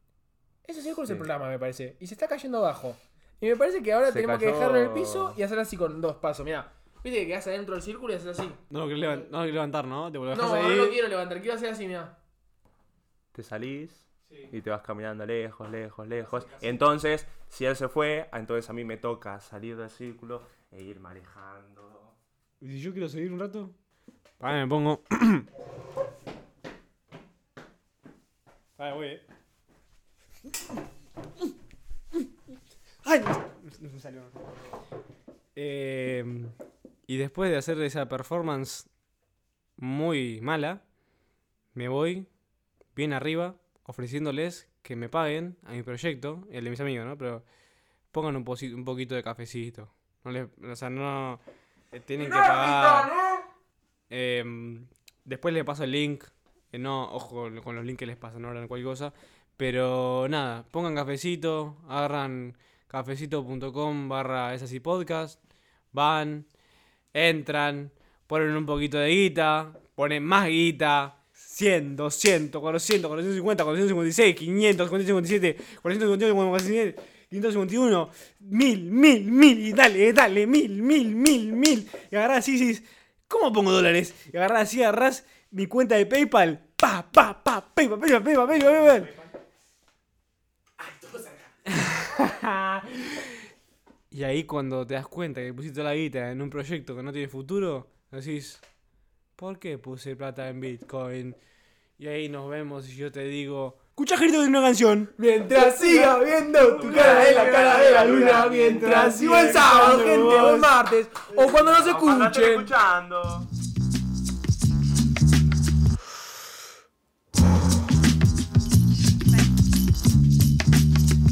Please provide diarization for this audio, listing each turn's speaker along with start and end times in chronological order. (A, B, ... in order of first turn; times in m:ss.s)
0:00.6-0:08.6 A
0:04.1-0:05.4 B
0:08.7-0:11.0 C
0:10.3-0:12.1 A
0:13.3-0:22.1 B
0:22.6-0:23.7 C
0:24.4-0:25.5 C
0:28.8-0:29.2 C
0:33.0-0:34.3 C
0:35.6-0:36.5 C
0:37.1-0:38.9 C
0:39.8-0:40.8 C
0:41.7-0:42.3 C
0:42.9-0:47.4 C
0:48.1-0:51.4 C
0:51.9-0:53.2 C
0:54.1-1:05.4 C
1:05.9-1:06.5 C
1:07.1-1:29.1 C
1:30.8-1:31.4 A
1:31.6-1:33.4 C
1:34.1-1:38.6 C
1:39.4-1:41.4 C
1:42.0-1:50.7 C
1:45.2-1:52.7 A
1:46.8-1:49.8 B
1:51.8-1:53.5 B